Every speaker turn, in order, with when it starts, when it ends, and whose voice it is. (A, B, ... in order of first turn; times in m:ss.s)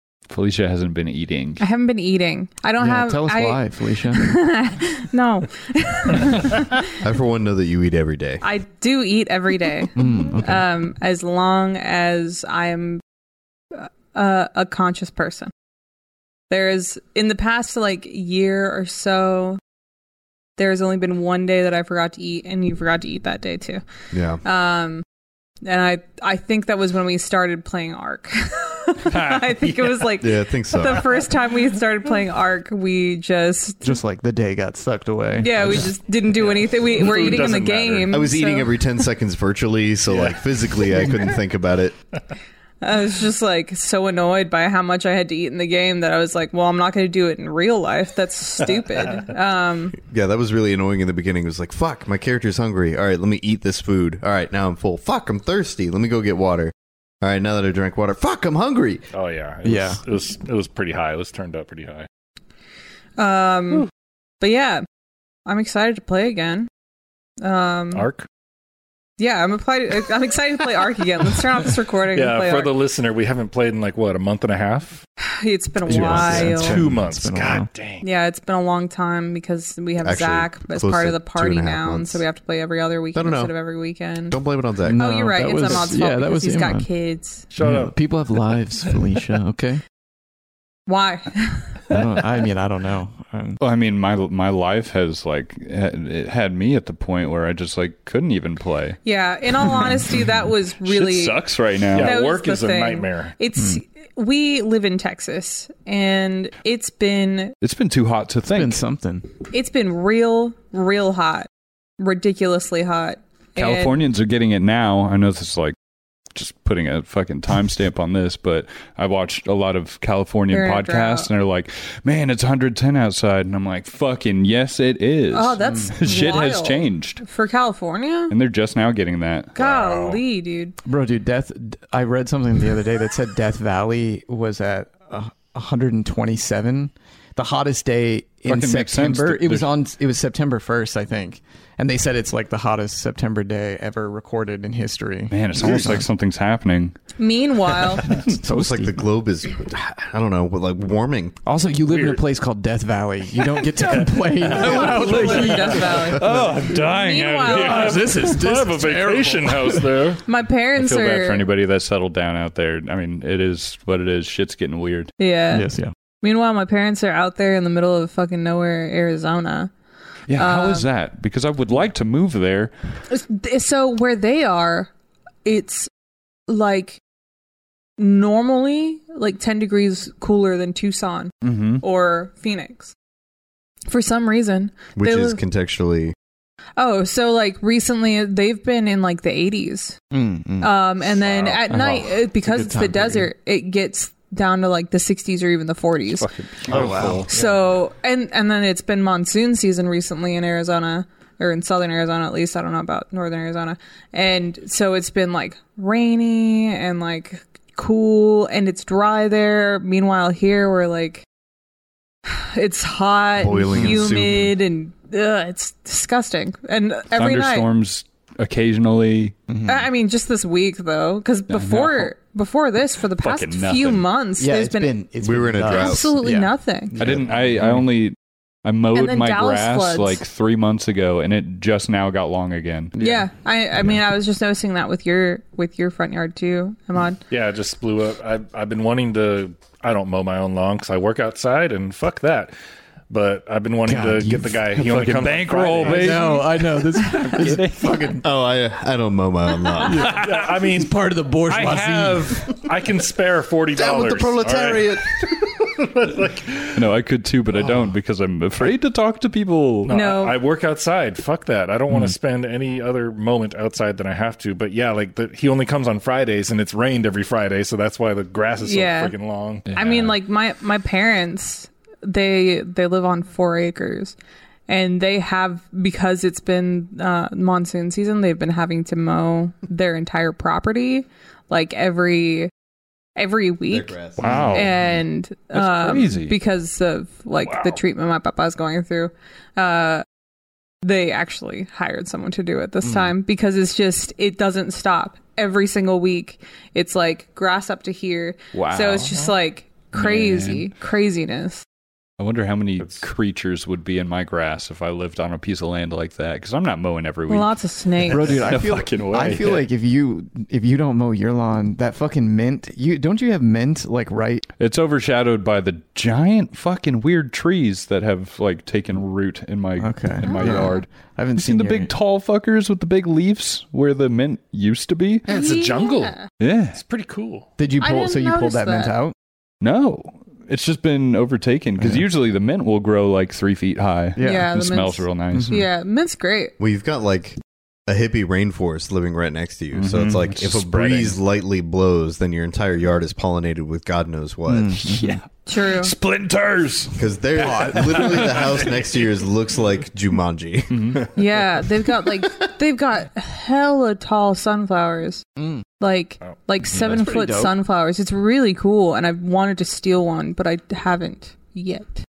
0:00.3-0:01.6 A
0:01.6-0:07.0 B
0:02.8-0:04.3 C
0:07.0-0:08.4 D
0:08.4-0:13.0 B
0:10.0-0:10.6 C
0:13.7-0:15.5 B
0:16.5-0:19.6 B
0:20.6-0:23.8 B
0:24.1-0:24.4 D
0:24.4-0:25.0 B
0:25.6-0:33.9 B
0:29.4-0:29.9 E
0:30.2-0:31.2 D
0:33.8-0:36.0 C
0:35.4-0:38.8 B
0:36.4-0:38.2 E
0:38.1-0:42.0 D
0:40.1-0:41.2 E
0:42.8-0:50.0 B
0:50.0-0:59.1 D
0:59.1-1:02.1 E
0:59.6-1:00.0 C
1:03.2-1:03.9 B
1:04.4-1:04.8 B
1:05.5-1:06.7 B
1:07.4-1:08.1 B
1:07.9-1:08.3 E
1:09.2-1:12.8 B
1:12.1-1:15.0 E
1:15.2-1:16.8 B
1:15.9-1:17.7 C
1:16.0-1:16.5 D
1:16.2-1:18.0 E
1:18.0-1:24.4 B
1:20.0-1:22.2 D
1:23.2-1:23.5 D
1:24.3-1:25.9 D
1:24.8-1:26.9 C
1:25.0-1:27.5 B
1:27.5-1:28.0 E
1:27.6-1:29.8 C
1:30.9-1:31.8 B
1:31.9-1:33.6 C
1:33.6-1:39.0 A
1:39.0-1:41.4 B
1:41.0-1:42.1 A
1:41.0-1:43.4 E
1:42.0-1:47.6 B
1:43.6-1:43.8 C
1:47.6-1:48.8 A
1:48.5-1:49.3 C
1:49.5-1:51.5 B
1:52.0-1:54.0 B
1:53.6-1:55.8 A
1:56.4-2:07.2 A
2:00.5-2:01.3 B
2:05.3-2:08.3 B
2:05.6-2:05.9 C
2:08.3-2:09.6 A
2:09.6-2:10.2 E
2:09.6-2:10.8 B
2:10.8-2:26.0 C
2:18.5-2:19.7 A
2:25.3-2:27.0 A
2:27.2-2:28.2 B
2:28.3-2:29.1 C
2:28.4-2:31.4 D
2:31.4-2:36.8 C
2:31.9-2:32.2 E
2:33.6-2:35.9 E
2:34.5-2:38.2 B
2:36.1-2:37.8 A
2:37.0-2:40.2 E
2:37.5-2:40.0 C
2:40.2-2:41.5 B
2:40.8-2:45.1 A
2:45.2-2:45.7 B
2:45.5-2:45.9 C
2:46.2-2:49.7 B
2:50.3-2:52.7 A
2:50.4-2:50.9 B
2:53.1-2:54.9 B
2:55.4-2:55.9 B
2:56.5-2:57.0 B
2:58.0-3:02.9 B
3:01.4-3:01.8 A
3:03.9-3:05.4 B
3:05.0-3:06.2 D
3:06.8-3:10.0 B
3:10.1-3:10.7 C
3:10.6-3:16.3 B
3:11.1-3:11.6 E
3:11.7-3:12.0 A
3:12.0-3:13.3 C
3:16.1-3:17.4 A
3:16.7-3:17.3 C
3:16.7-3:17.5 E
3:17.3-3:31.2 B
3:32.3-3:37.7 B
3:33.4-3:34.6 D
3:33.7-3:34.0 C
3:37.2-3:39.4 A
3:39.5-3:39.8 C
3:39.7-3:45.0 B
3:41.5-3:42.1 A
3:43.2-3:44.0 A
3:44.4-3:47.8 C
3:45.2-3:46.2 D
3:45.7-3:46.9 B
3:47.0-3:53.0 A
3:48.9-3:50.2 B
3:53.0-3:53.3 C
3:53.0-3:57.2 B
3:57.3-4:02.5 E
4:03.1-4:06.4 E
4:03.9-4:05.0 C
4:04.8-4:06.4 A
4:05.8-4:08.3 C
4:05.9-4:07.4 B
4:07.0-4:08.2 A
4:08.2-4:10.2 D
4:09.8-4:12.6 C
4:10.0-4:16.8 E
4:13.7-4:15.5 D
4:16.7-4:19.9 A
4:19.8-4:30.1 E
4:19.9-4:20.4 B
4:28.6-4:29.2 B
4:29.7-4:30.1 A
4:29.7-4:34.2 B
4:34.7-4:42.5 B
4:43.2-4:44.0 B
4:43.7-4:44.6 D
4:44.2-4:44.7 A
4:44.2-4:44.7 E
4:44.5-4:50.0 B
4:45.5-4:46.4 A
4:47.4-4:47.8 E
4:50.8-5:01.6 B
4:52.8-4:53.1 C
4:58.5-4:59.2 A
4:59.0-4:59.3 E
4:59.9-5:00.7 A
5:02.2-5:09.7 A
5:07.3-5:08.4 B
5:08.1-5:14.4 C
5:14.6-5:25.3 A
5:19.8-5:21.9 C
5:20.2-5:20.8 B
5:25.3-5:27.5 E
5:25.3-5:26.3 B
5:26.4-5:26.8 A
5:27.6-5:29.1 C
5:27.8-5:29.0 B
5:29.6-5:35.6 A
5:31.8-5:32.1 C
5:34.2-5:34.5 C
5:34.2-5:36.5 B
5:35.3-5:35.7 C
5:36.6-5:44.8 D
5:39.7-5:41.2 A
5:44.5-5:45.2 C
5:44.8-5:48.4 A
5:45.5-5:45.9 B
5:47.0-5:51.1 D
5:47.4-5:48.3 C
5:48.2-5:49.1 E
5:50.7-5:51.0 A
5:51.2-5:55.2 B
5:55.4-5:55.6 C
5:55.8-6:02.0 B
5:56.8-5:57.6 C